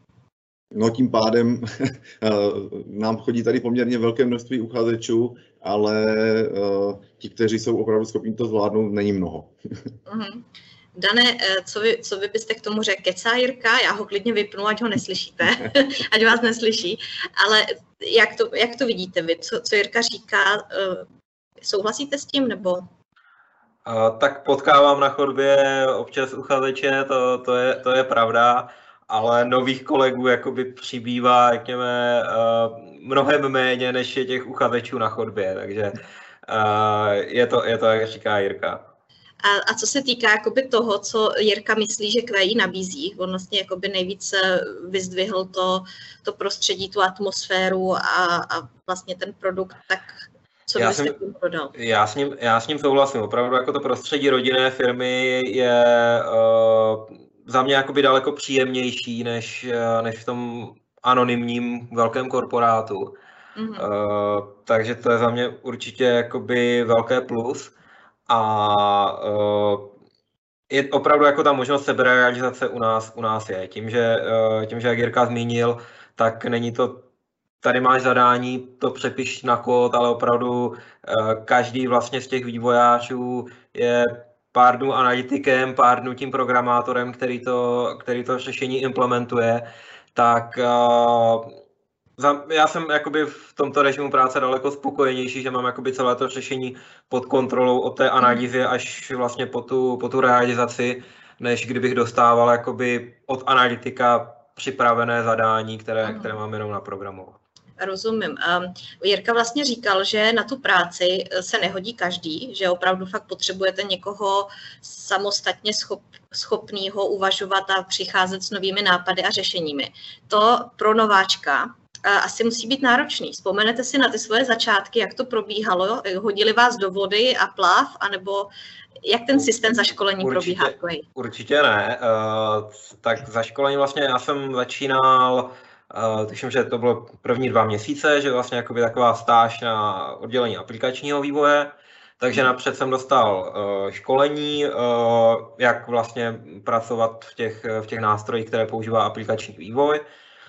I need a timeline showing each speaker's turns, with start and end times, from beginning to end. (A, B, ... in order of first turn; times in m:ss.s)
0:00.7-0:09.5 A
0:10.1-0:10.4 B
0:11.0-0:21.1 B
0:21.6-0:22.9 B
0:23.8-0:38.8 C
0:39.4-0:50.2 B
0:50.7-0:51.7 B
0:50.8-0:51.2 C
0:51.7-1:03.1 C
1:03.6-1:03.9 B
1:03.8-1:07.7 C
1:08.3-1:09.9 C
1:10.7-1:17.0 C
1:17.6-1:31.5 C
1:32.2-1:47.4 C
1:46.0-1:46.3 B
1:47.8-2:08.5 B
2:09.0-2:11.0 B
2:10.2-2:30.0 C